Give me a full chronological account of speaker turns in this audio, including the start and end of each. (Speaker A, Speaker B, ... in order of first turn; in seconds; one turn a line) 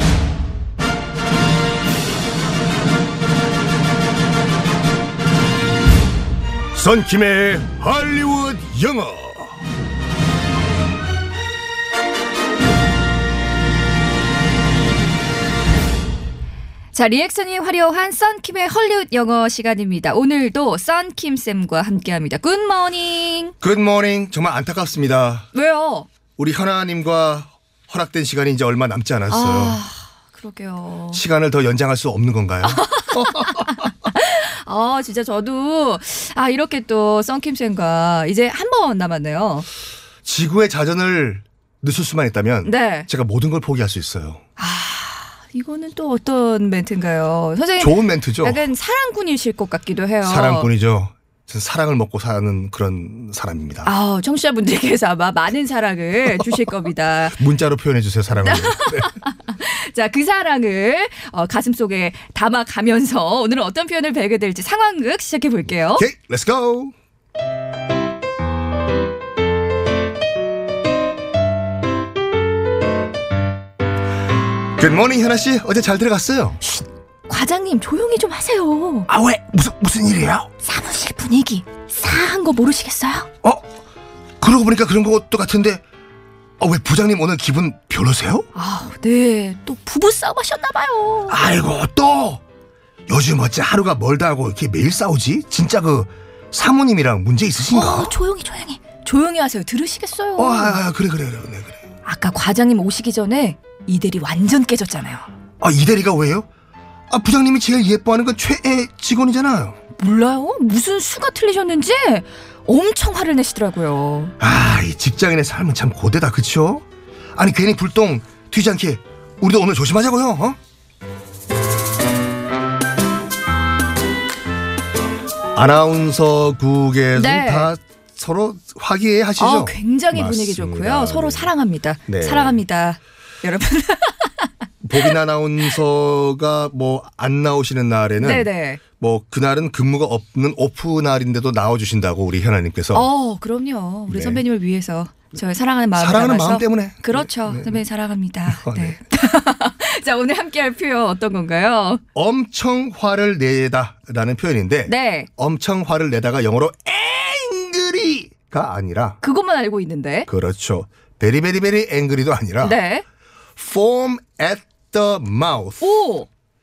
Speaker A: 6.7-9.6
Speaker B: 16.9-23.5
Speaker A: 23.6-25.5
Speaker B: 25.5-26.1
Speaker A: 26.4-29.8
Speaker B: 29.3-31.2
Speaker A: 31.1-33.9
Speaker B: 32.6-39.6
Speaker A: 40.2-44.4
Speaker B: 42.6-43.1
Speaker B: 44.6-50.7
Speaker A: 47.8-48.6
Speaker A: 50.2-53.9
Speaker B: 53.8-57.4
Speaker A: 57.3-59.1
Speaker B: 58.4-66.1
Speaker A: 66.0-66.9
Speaker A: 74.8-76.6
Speaker B: 76.6-79.1
Speaker A: 79.1-80.5
Speaker B: 80.6-83.3
Speaker A: 84.4-85.8
Speaker A: 86.6-88.5
Speaker B: 88.5-91.4
Speaker A: 91.3-92.4
Speaker A: 93.1-98.1
Speaker B: 97.7-100.8
Speaker A: 100.4-101.8
Speaker B: 102.0-105.3
Speaker A: 105.6-106.5
Speaker A: 107.1-109.8
Speaker B: 110.0-114.3
Speaker A: 114.4-116.8
Speaker A: 117.3-120.6
Speaker A: 125.5-131.5
Speaker B: 127.1-127.7
Speaker B: 129.4-135.1
Speaker A: 132.1-132.6
Speaker A: 134.8-143.1
Speaker B: 138.2-138.8
Speaker B: 142.9-152.0
Speaker A: 144.1-144.4
Speaker A: 145.9-147.8
Speaker A: 148.5-149.0
Speaker A: 152.1-159.2
Speaker B: 154.8-155.3
Speaker B: 159.2-160.3
Speaker A: 160.3-162.8
Speaker B: 162.6-163.0
Speaker A: 163.6-166.0
Speaker B: 165.8-166.3